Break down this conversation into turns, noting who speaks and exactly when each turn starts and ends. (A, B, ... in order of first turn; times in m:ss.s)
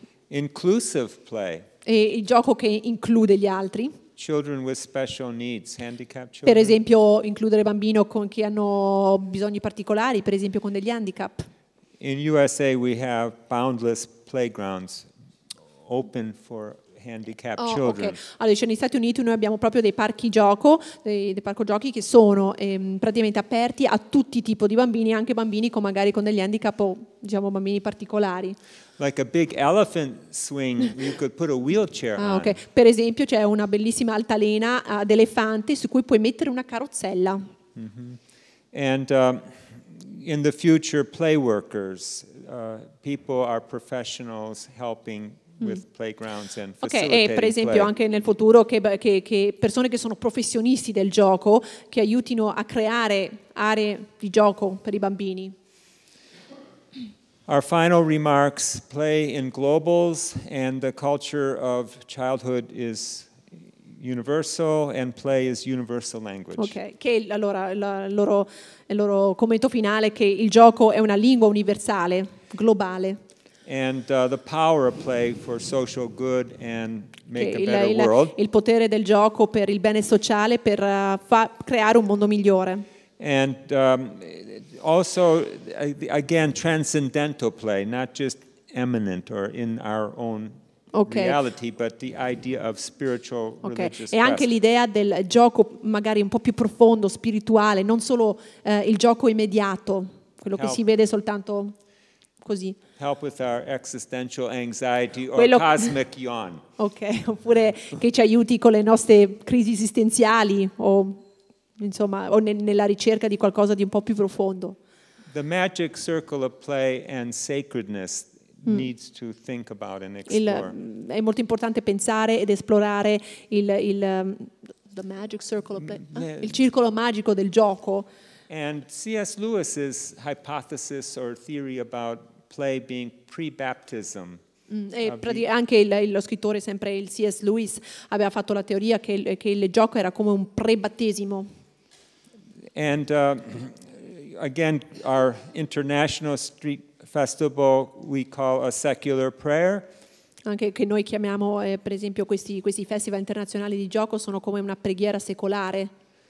0:00.3-0:01.7 A
0:01.8-0:04.0 B
0:04.2-0:06.8 A
0:06.4-0:11.5 B
0:12.0-0:15.1 A
0:15.8-0:18.2 A
0:17.6-0:28.6 B
0:29.0-0:32.6 A
0:32.2-0:37.4 B
0:37.8-0:47.9 A
0:46.8-0:55.5 B
0:57.5-1:06.8 A
1:06.6-1:13.2 B
1:13.6-1:18.4 A
1:17.4-1:22.9 B
1:23.2-1:34.5 A
1:30.9-1:31.4 B
1:33.6-1:41.8 B
1:40.6-1:40.8 A
1:42.4-1:42.8 B
1:43.0-1:46.6 A
1:45.4-1:45.9 B
1:46.8-1:51.2 B
1:51.8-1:54.8 B
1:55.3-2:00.8 A
2:00.3-2:08.1 B
2:05.8-2:06.6 A
2:08.5-2:14.4 A
2:14.7-2:21.5 B
2:15.0-2:15.5 A
2:22.7-2:29.9 A
2:30.5-2:35.9 B